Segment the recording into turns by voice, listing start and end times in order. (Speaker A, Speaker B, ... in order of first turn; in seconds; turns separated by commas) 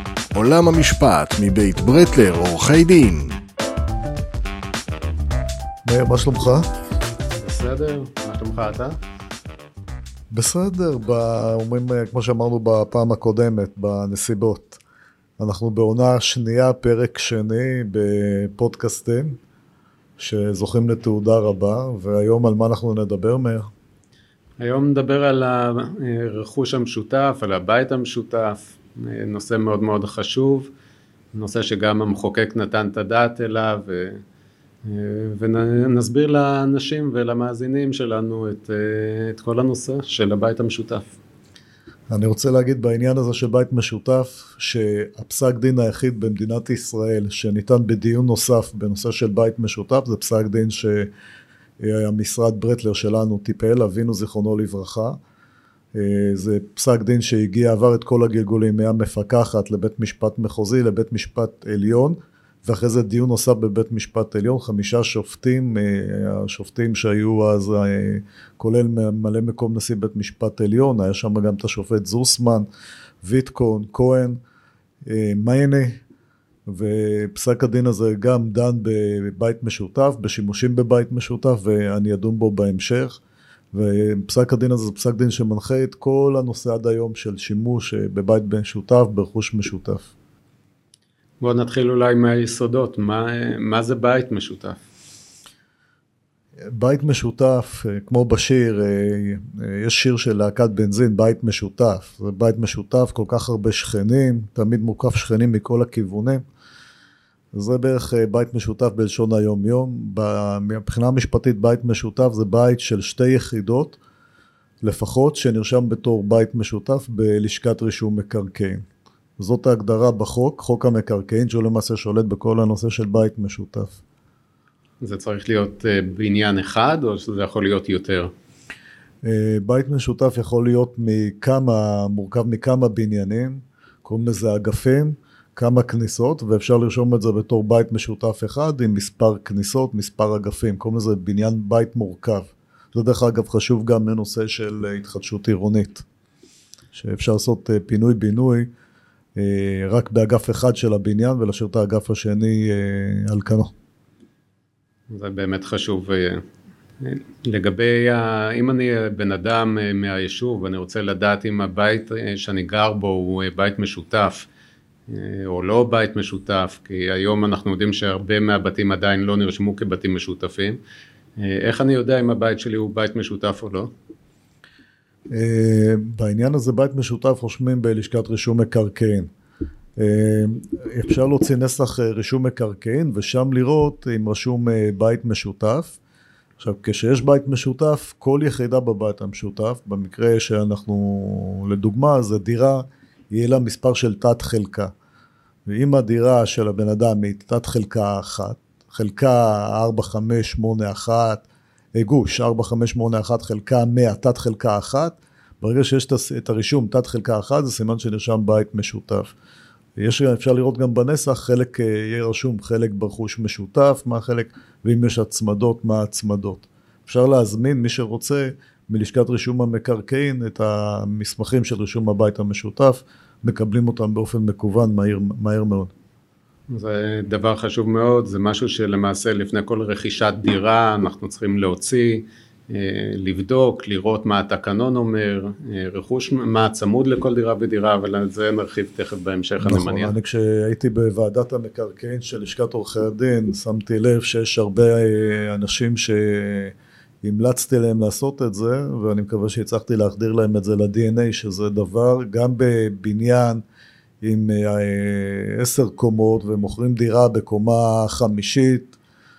Speaker A: 0.3-3.4, Speaker B: 5.8-6.7, Speaker C: 7.4-9.0, Speaker B: 10.3-14.8, Speaker B: 15.4-19.4, Speaker B: 20.2-23.7, Speaker C: 24.6-30.7, Speaker C: 31.3-34.2, Speaker C: 34.9-41.1, Speaker B: 42.1-51.1, Speaker B: 51.8-55.2, Speaker B: 56.0-72.7, Speaker B: 73.2-74.4, Speaker B: 75.0-76.0, Speaker B: 76.7-83.2, Speaker B: 83.7-90.1, Speaker C: 91.4-94.8, Speaker B: 96.7-106.4, Speaker B: 107.5-114.0, Speaker B: 114.8-118.8, Speaker B: 119.4-124.0, Speaker C: 125.0-128.3, Speaker B: 129.2-146.1, Speaker B: 146.9-148.7, Speaker B: 149.4-153.7, Speaker C: 155.1-156.4, Speaker C: 157.0-164.5, Speaker C: 165.1-170.8, Speaker C: 171.4-173.9, Speaker B: 175.3-179.3, Speaker B: 180.0-186.0, Speaker B: 186.6-194.9, Speaker B: 195.7-201.4, Speaker B: 202.0-209.3, Speaker B: 210.0-225.9, Speaker C: 226.7-240.1, Speaker B: 239.6-253.6, Speaker B: 254.2-258.9